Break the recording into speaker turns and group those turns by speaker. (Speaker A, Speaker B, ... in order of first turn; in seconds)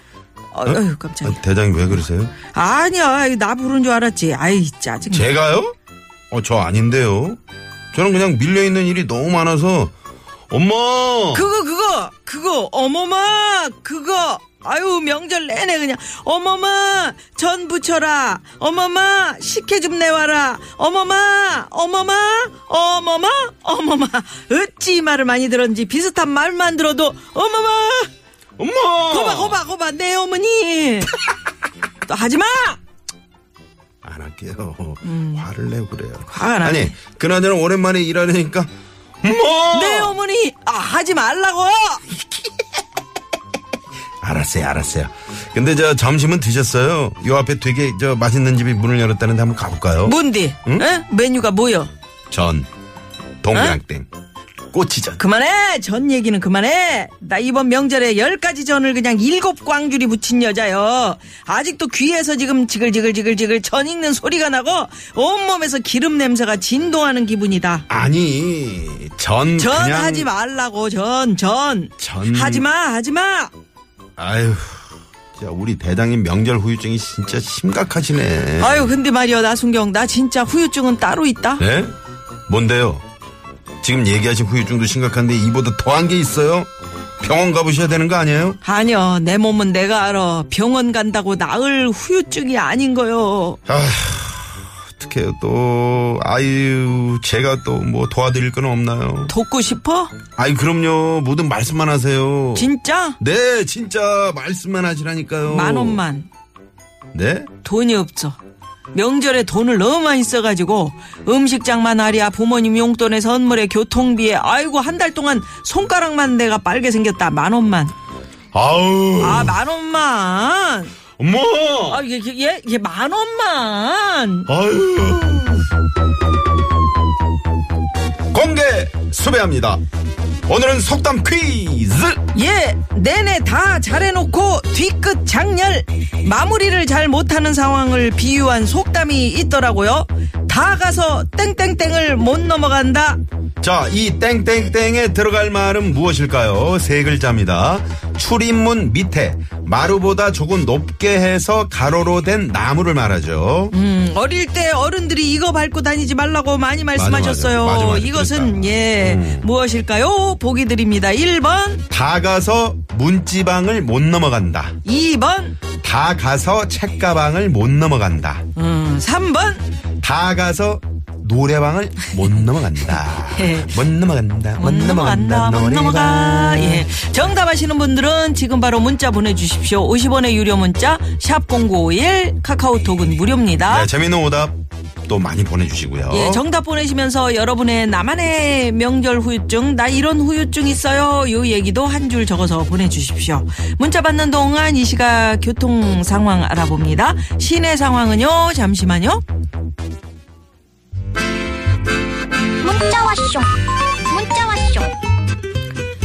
Speaker A: 0.5-1.4, 2.5-5.3, 11.3-28.1, 29.1-31.1, 32.0-32.8, 35.0-35.5, 36.2-37.0, 39.7-42.4, 50.0-51.9, 55.2-67.8, 69.6-73.5, 78.6-81.6, 88.6-93.6, 99.3-100.1, 102.5-103.2, 105.4-106.3, 107.6-108.4, 108.9-117.9, 119.2-120.9, 121.9-124.5, 132.3-143.2, 153.7-161.8, 164.8-165.6, 168.5-169.7, 172.9-173.8, 174.6-183.9, 186.1-199.2
Speaker B: 0.6-2.3, 5.1-5.7, 6.3-7.4, 7.9-9.9, 10.5-11.5, 28.6-29.6, 34.0-38.7, 39.2-40.1, 44.2-50.9, 52.3-52.7, 53.4-54.1, 54.7-55.2, 67.9-70.3, 72.0-72.7, 74.2-78.9, 81.6-81.9, 82.5-83.0, 83.8-86.7, 87.2-88.6, 93.7-99.3, 100.3-106.0, 107.1-107.5, 118.5-119.6, 121.2-122.0, 124.5-125.7, 128.3-129.8, 130.5-132.2, 143.6-153.7, 156.9-159.5, 161.9-164.8, 165.8-168.4, 170.0-177.0, 183.6-184.5, 185.1-186.4
Speaker C: 202.6-204.9